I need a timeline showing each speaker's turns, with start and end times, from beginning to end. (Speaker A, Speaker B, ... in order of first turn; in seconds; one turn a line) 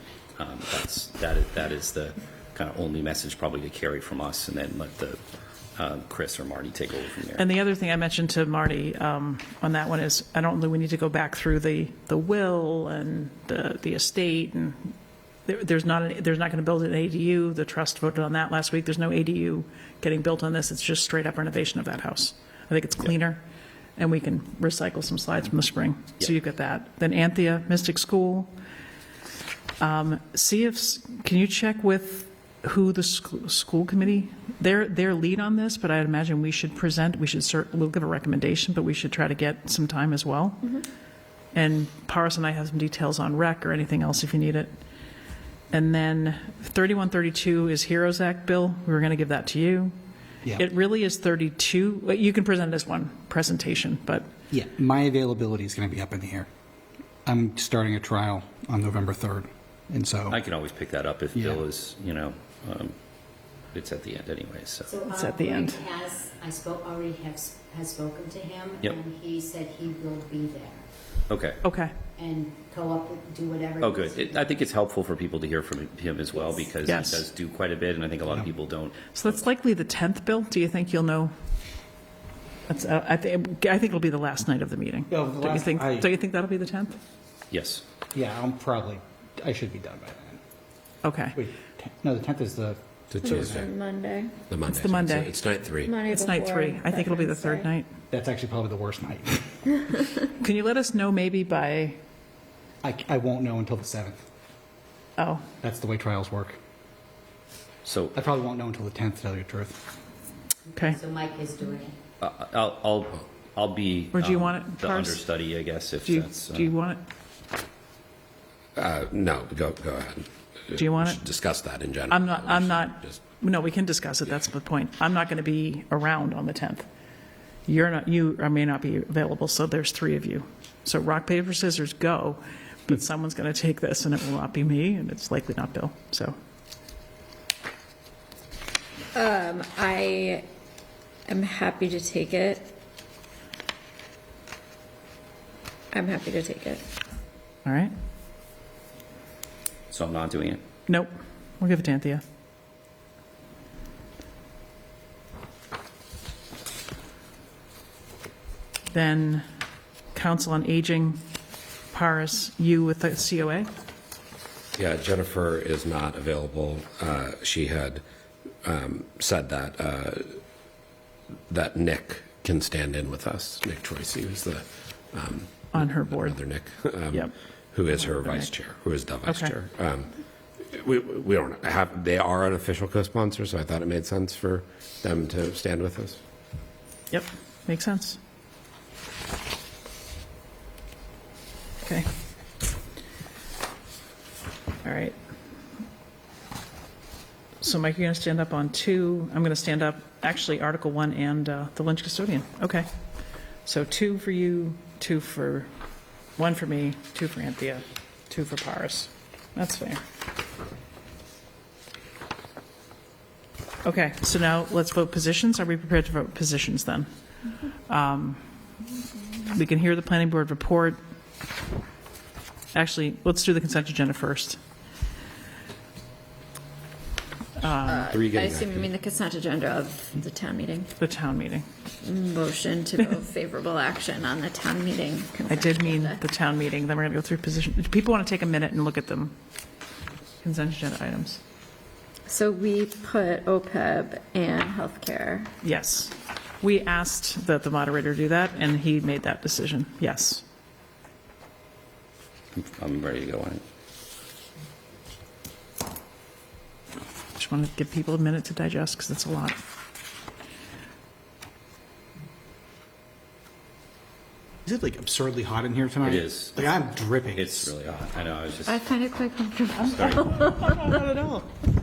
Speaker A: 0.4-5.2
Speaker A: 5.8-7.5
Speaker B: 7.4-14.9
Speaker B: 15.5-23.4
Speaker B: 24.0-28.5
Speaker B: 29.8-40.8
Speaker B: 41.5-44.7
Speaker B: 45.7-49.9
Speaker B: 50.5-54.3
Speaker C: 54.5-56.5
Speaker C: 57.3-60.4
Speaker A: 60.3-63.0
Speaker C: 61.4-61.6
Speaker A: 63.7-64.9
Speaker D: 64.9-70.9
Speaker B: 65.1-65.8
Speaker A: 71.3-71.6
Speaker B: 71.6-71.9
Speaker D: 72.2-74.5
Speaker A: 73.8-79.4
Speaker B: 76.9-77.3
Speaker B: 79.2-81.3
Speaker B: 82.7-87.0
Speaker C: 85.1-86.1
Speaker A: 87.5-87.8
Speaker C: 88.1-90.4
Speaker B: 91.0-91.4
Speaker C: 91.4-93.6
Speaker E: 93.1-93.7
Speaker F: 93.2-94.3
Speaker E: 94.5-96.0
Speaker B: 94.7-95.4
Speaker F: 95.8-97.7
Speaker B: 96.1-97.9
Speaker C: 98.1-99.7
Speaker B: 100.4-102.0
Speaker C: 102.8-104.2
Speaker B: 105.2-105.5
Speaker C: 105.6-106.6
Speaker A: 107.8-108.2
Speaker C: 108.2-109.9
Speaker B: 110.7-111.0
Speaker D: 110.8-112.0
Speaker A: 112.2-116.7
Speaker B: 114.1-115.2
Speaker B: 116.0-117.0
Speaker E: 118.8-123.2
Speaker B: 120.8-121.2
Speaker B: 122.1-126.9
Speaker B: 127.7-136.3
Speaker F: 139.1-140.5
Speaker F: 141.3-142.7
Speaker F: 145.9-146.8
Speaker B: 147.7-147.9
Speaker A: 149.9-150.6
Speaker B: 150.9-152.2
Speaker B: 158.9-159.4
Speaker B: 160.1-161.2
Speaker B: 161.9-163.7
Speaker E: 164.8-168.0
Speaker E: 168.6-170.4
Speaker E: 171.5-186.2
Speaker B: 175.7-177.3
Speaker B: 177.9-178.6
Speaker B: 179.2-179.5
Speaker B: 187.1-188.2
Speaker B: 194.8-195.2
Speaker B: 197.6-202.9
Speaker B: 203.7-205.7
Speaker B: 206.4-210.0
Speaker B: 213.8-217.1
Speaker B: 217.9-218.4
Speaker B: 219.5-221.0
Speaker B: 222.7-224.6
Speaker B: 227.6-228.1
Speaker F: 227.8-230.9
Speaker E: 228.1-228.9
Speaker B: 231.0-231.7
Speaker F: 232.0-236.2
Speaker B: 235.5-239.4
Speaker B: 240.4-241.4
Speaker F: 242.3-245.5
Speaker B: 245.6-250.4
Speaker A: 252.5-253.6
Speaker B: 257.4-259.6
Speaker C: 264.7-267.7
Speaker A: 266.0-266.8
Speaker A: 267.3-268.9
Speaker F: 268.7-270.9
Speaker B: 269.8-271.6
Speaker A: 269.9-270.5